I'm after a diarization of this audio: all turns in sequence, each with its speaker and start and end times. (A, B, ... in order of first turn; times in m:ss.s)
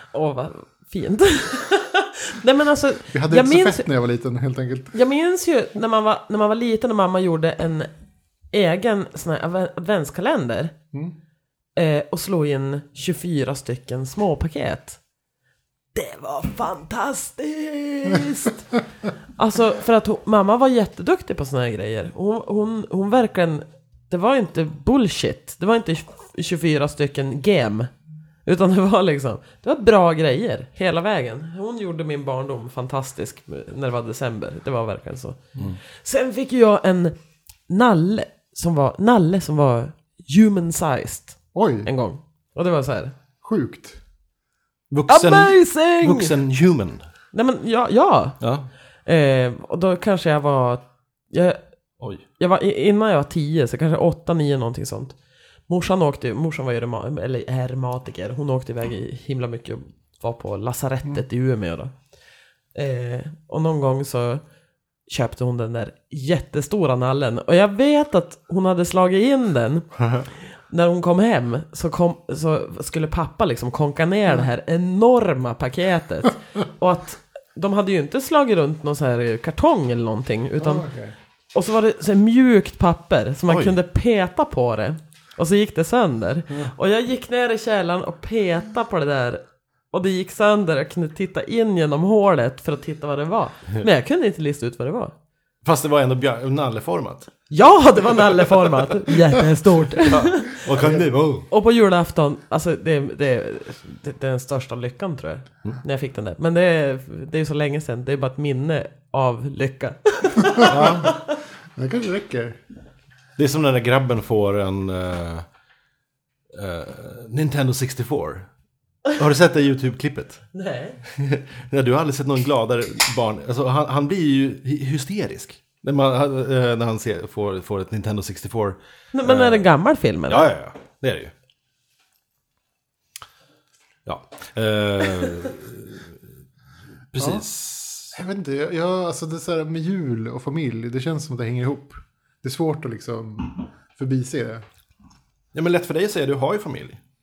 0:00.1-0:03.8 A
0:03.1-0:04.9 B
0:04.9-0:07.9 A
0:08.5-0:10.7 A
0:11.8-0:15.0 A
0:15.9-0:18.6 A
0:19.4-0:27.9 A
0:28.4-0:35.4 A
0:35.9-0:37.2 A
0:37.7-0:43.1 A
0:41.5-0:41.9 B
0:43.4-0:44.0 B
0:44.9-0:47.0 C
0:45.1-0:46.3 A
0:47.3-0:48.4 A
0:48.4-0:48.7 C
0:49.0-0:51.6 A
0:52.4-0:55.1 A
0:55.7-1:01.9 A
1:02.7-1:04.4 A
1:05.1-1:09.9 A
1:10.0-1:10.2 C
1:10.7-1:20.8 A
1:20.6-1:21.1 B
1:21.5-1:35.1 A
1:23.5-1:23.7 C
1:35.6-1:37.3 C
1:37.5-1:41.0 A
1:40.1-1:41.5 C
1:41.5-1:51.3 A
1:50.6-1:52.6 B
1:50.7-1:51.1 C
1:53.4-1:55.4 C
1:56.5-1:58.5 C
1:59.1-2:00.4 C
2:00.5-2:01.0 A
2:01.1-2:09.6 C
2:09.1-2:10.5 A
2:10.3-2:11.3 C
2:14.0-2:16.1 C
2:17.1-2:18.1 C
2:17.2-2:17.4 B
2:18.1-2:24.6 B
2:25.5-2:27.0 C